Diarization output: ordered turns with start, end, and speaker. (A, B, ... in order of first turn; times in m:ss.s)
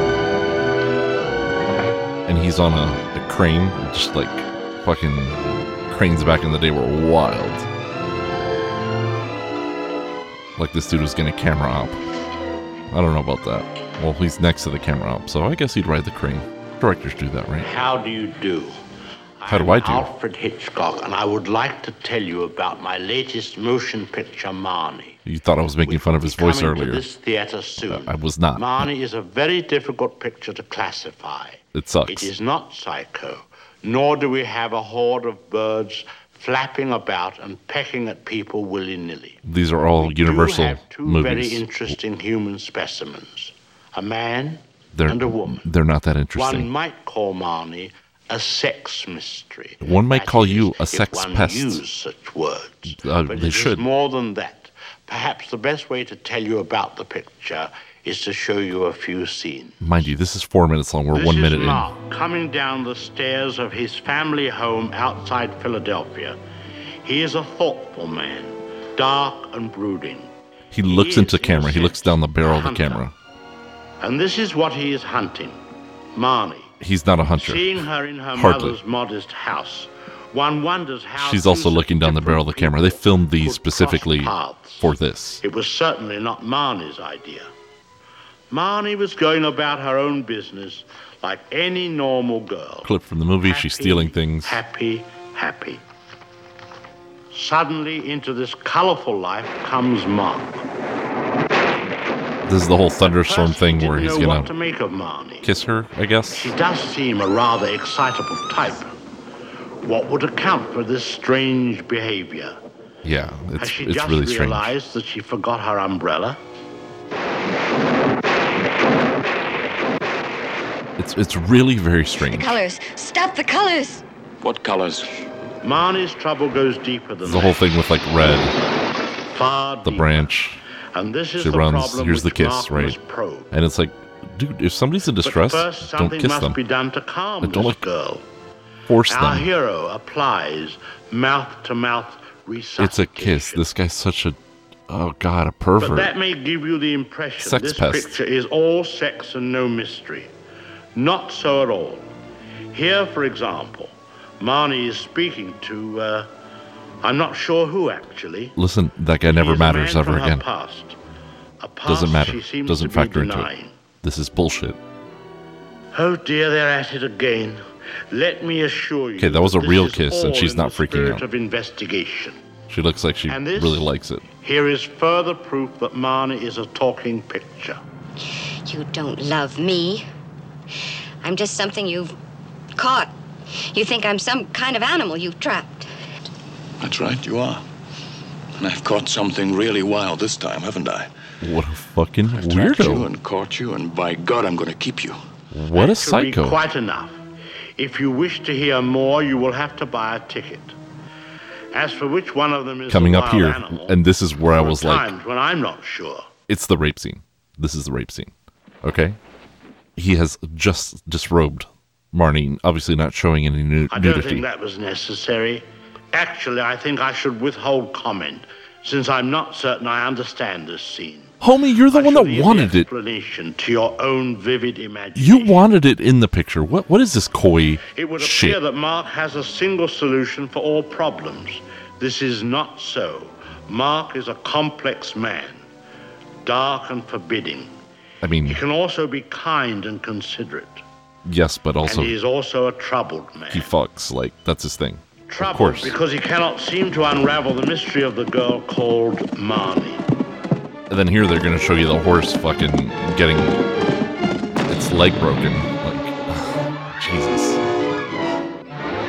0:02.3-0:07.7 A
0:10.6-0:12.0 A
0:12.9-0:17.7 A
0:17.6-0:18.8 B
0:19.4-0:25.2 B
0:19.5-0:20.1 A
0:25.2-0:27.0 A
0:25.8-0:39.4 B
0:27.8-0:28.9 A
0:31.7-0:32.3 A
0:39.4-0:42.0 A
0:40.0-0:45.6 B
0:45.0-0:46.7 A
0:46.3-0:59.8 B
0:49.8-0:51.8 A
0:52.9-0:53.9 A
0:59.8-1:01.9 A
1:01.1-1:06.4 B
1:07.0-1:10.3 B
1:10.7-1:13.1 A
1:10.8-1:13.1 B
1:14.0-1:15.6 B
1:16.1-1:16.7 B
1:16.8-1:18.8 A
1:17.4-1:24.9 B
1:21.2-1:25.4 A
1:25.4-1:27.5 B
1:28.5-1:32.9 B
1:32.8-1:34.6 A
1:33.4-1:35.8 B
1:37.3-1:40.7 B
1:42.5-1:44.5 A
1:43.0-1:45.5 B
1:45.4-1:46.5 A
1:46.3-1:49.0 B
1:49.8-1:52.6 B
1:53.0-1:54.7 A
1:53.6-1:56.4 B
2:01.0-2:02.6 A
2:02.2-2:04.0 C
2:04.4-2:05.2 D
2:05.6-2:07.6 B
2:07.2-2:08.5 A
2:09.2-2:10.3 B
2:09.8-2:10.6 A
2:10.9-2:13.5 B
2:11.4-2:13.0 A
2:13.5-2:16.6 A
2:15.2-2:18.2 B
2:17.4-2:17.8 A
2:18.9-2:19.5 A
2:19.1-2:23.6 B
2:22.8-2:26.1 A
2:25.8-2:30.3 B
2:27.4-2:28.2 A
2:31.0-2:32.1 B
2:32.7-2:36.3 B
2:37.0-2:38.6 B
2:38.6-2:40.4 A
2:39.3-2:41.0 B
2:41.6-2:43.8 B
2:41.9-2:43.5 A
2:44.0-2:44.8 A
2:45.9-2:52.4 B
2:49.2-2:51.2 A
2:52.7-2:54.3 A
2:53.3-2:57.8 B
2:58.6-3:00.1 C
3:01.2-3:02.2 C
3:02.8-3:03.1 C
3:03.7-3:05.9 C
3:06.8-3:07.6 D
3:08.6-3:11.1 D
3:11.4-3:13.1 A
3:12.3-3:15.2 D
3:15.5-3:16.6 A
3:15.7-3:17.2 B
3:17.8-3:20.8 B
3:21.7-3:24.0 B
3:22.9-3:25.1 A
3:24.6-3:26.3 B
3:26.5-3:29.2 A
3:30.0-3:34.4 A
3:33.9-3:41.4 B
3:41.4-3:42.9 A
3:41.9-3:45.6 B
3:45.2-3:48.6 A
3:47.8-3:55.6 B
3:56.4-3:57.7 B
3:58.2-3:58.6 A
3:58.4-4:00.8 B
4:01.2-4:02.2 A
4:01.8-4:03.7 B
4:03.5-4:06.0 A
4:05.3-4:10.0 B
4:10.9-4:13.6 A
4:14.7-4:17.6 A